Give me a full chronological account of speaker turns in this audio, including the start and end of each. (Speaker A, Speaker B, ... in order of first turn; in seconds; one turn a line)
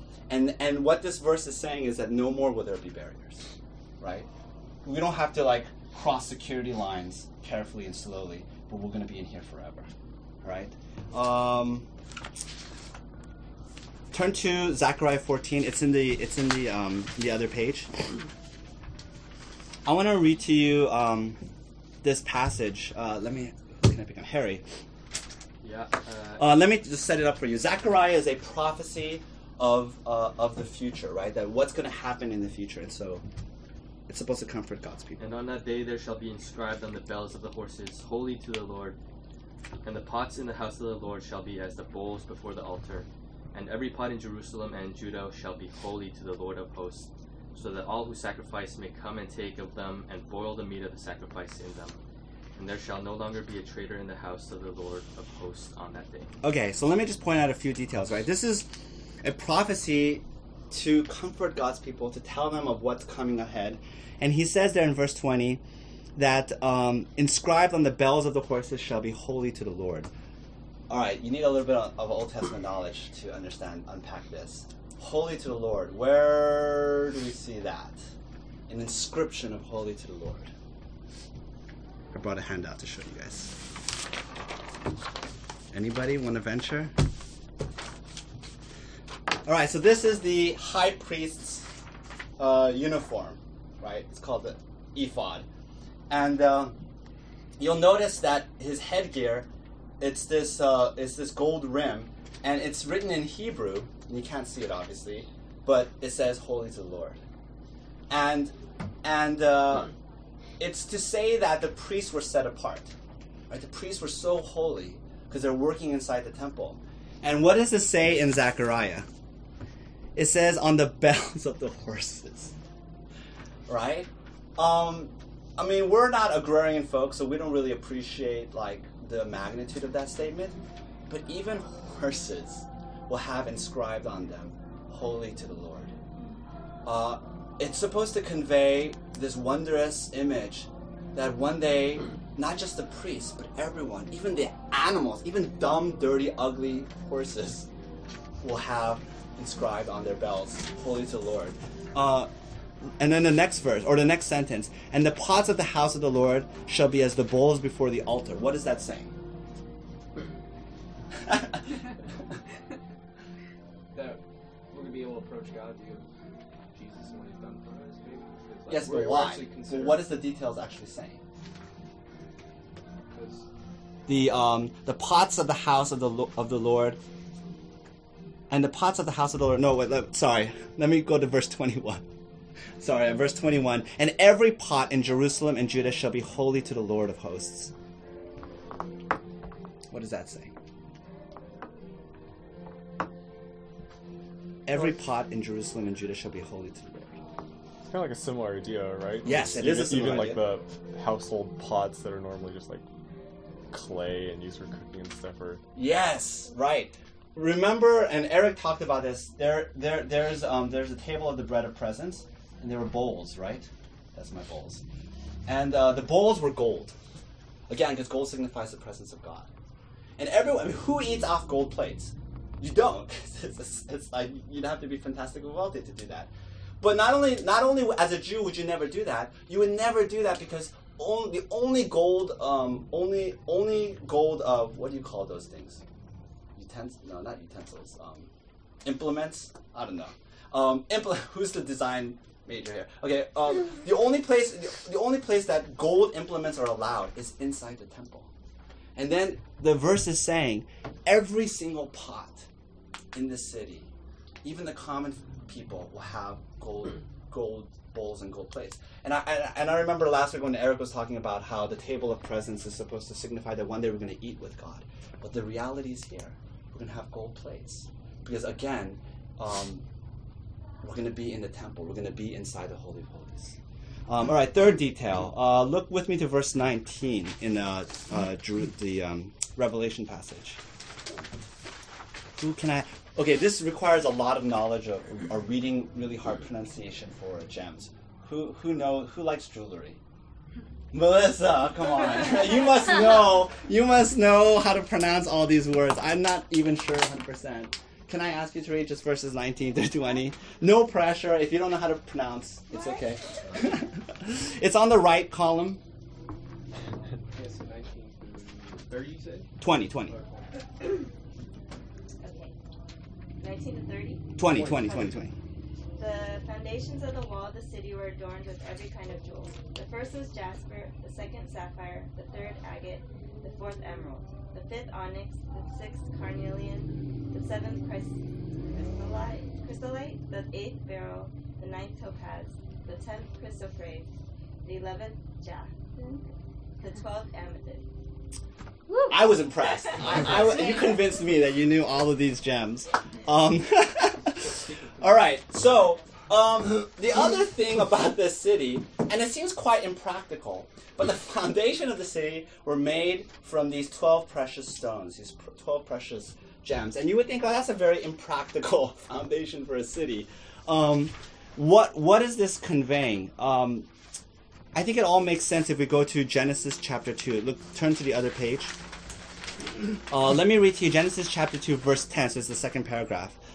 Speaker A: 0.3-3.5
Speaker A: 4.0-4.3
Speaker A: 4.8-9.9
Speaker A: 10.4-11.9
Speaker A: 14.1-17.9
Speaker A: 19.9-21.4
Speaker A: 22.0-24.6
Speaker B: 25.6-26.5
Speaker A: 26.4-33.2
Speaker A: 34.1-35.2
Speaker B: 35.2-39.0
Speaker B: 39.8-52.0
Speaker B: 52.5-56.3
Speaker A: 56.4-58.7
Speaker A: 59.2-65.6
Speaker A: 66.2-70.1
Speaker A: 70.9-78.1
Speaker A: 78.7-80.5
Speaker A: 82.1-83.6
Speaker A: 85.7-86.9
Speaker A: 89.5-91.7
Speaker A: 92.4-95.5
Speaker A: 96.1-96.7
Speaker A: 97.6-99.5
Speaker A: 100.0-107.2
Speaker A: 108.1-109.9
Speaker A: 110.6-112.9
Speaker A: 113.5-119.1
Speaker A: 120.2-122.5
Speaker A: 123.7-130.6
Speaker A: 131.1-135.9
Speaker A: 136.8-147.7
Speaker A: 148.4-152.3
Speaker A: 153.0-159.1
Speaker C: 163.9-166.1
Speaker C: 166.7-170.2
Speaker A: 168.7-171.2
Speaker C: 173.1-173.4
Speaker A: 174.1-177.0
Speaker A: 178.5-182.1
Speaker A: 182.8-187.7
Speaker A: 189.9-190.6
Speaker A: 194.7-197.2
Speaker D: 197.9-202.8
Speaker A: 199.2-200.4
Speaker D: 203.7-205.6
Speaker A: 205.8-214.8
Speaker A: 215.5-217.0
Speaker A: 217.7-219.5
Speaker A: 220.2-226.3
Speaker A: 226.8-235.8
Speaker A: 236.6-238.3
Speaker A: 238.8-248.3
Speaker A: 249.0-252.5
Speaker A: 253.1-253.9
Speaker A: 254.4-269.8
Speaker A: 270.8-273.6
Speaker A: 274.1-280.6
Speaker A: 282.4-290.0
Speaker A: 290.9-305.8
Speaker C: 306.7-309.5
Speaker A: 309.6-310.1
Speaker C: 310.1-310.5
Speaker E: 312.2-312.5
Speaker E: 313.4-315.2
Speaker A: 314.4-315.3
Speaker E: 316.0-328.2
Speaker E: 328.7-334.1
Speaker E: 334.6-336.2
Speaker E: 336.8-337.9
Speaker A: 339.1-363.9
Speaker A: 364.7-368.7
Speaker A: 370.1-373.4